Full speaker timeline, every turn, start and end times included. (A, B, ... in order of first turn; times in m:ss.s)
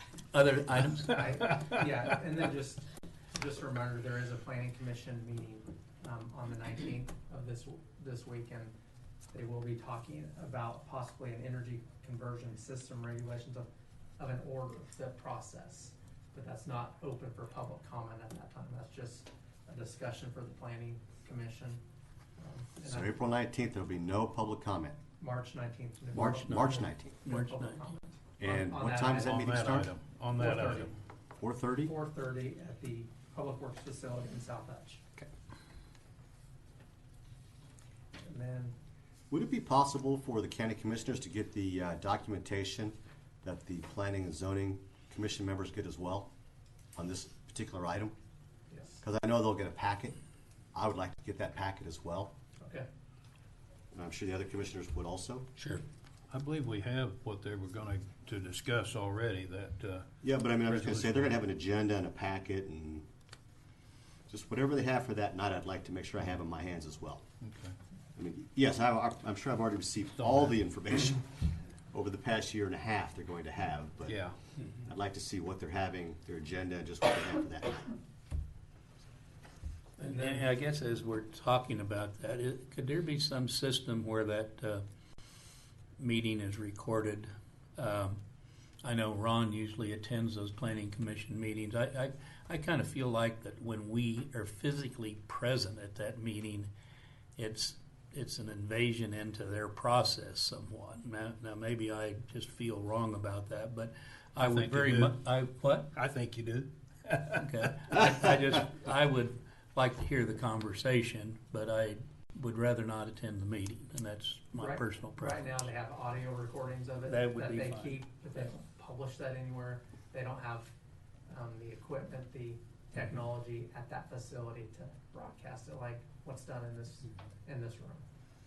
0:00.3-0:01.2 A
0:01.0-0:08.7 B
0:09.3-0:21.8 B
0:22.4-0:23.1 B
0:22.8-0:25.0 C
0:25.2-0:30.9 B
0:26.1-0:27.2 C
0:26.1-0:27.8 A
0:28.4-0:29.9 C
0:29.2-0:30.9 D
0:31.4-0:31.9 C
0:31.8-0:35.0 B
0:38.2-0:38.7 B
0:39.3-0:46.3 C
0:46.9-0:48.1 C
0:48.7-0:49.0 B
0:49.0-0:50.2 C
0:50.7-0:52.3 C
0:52.6-0:52.9 B
0:53.9-0:55.5 C
0:55.6-0:55.8 A
0:56.3-1:01.4 D
1:00.2-1:03.1 C
1:04.3-1:07.2 C
1:07.4-1:07.7 D
1:08.2-1:17.9 C
1:10.2-1:10.5 D
1:14.0-1:14.4 D
1:20.0-1:24.8 A
1:20.0-1:20.2 B
1:26.0-1:28.2 A
1:28.8-1:36.7 A
1:37.4-1:45.9 A
1:44.4-1:45.2 D
1:45.9-1:47.1 D
1:47.3-1:55.6 A
1:54.6-2:00.7 B
1:57.1-1:58.0 A
2:01.3-2:08.0 B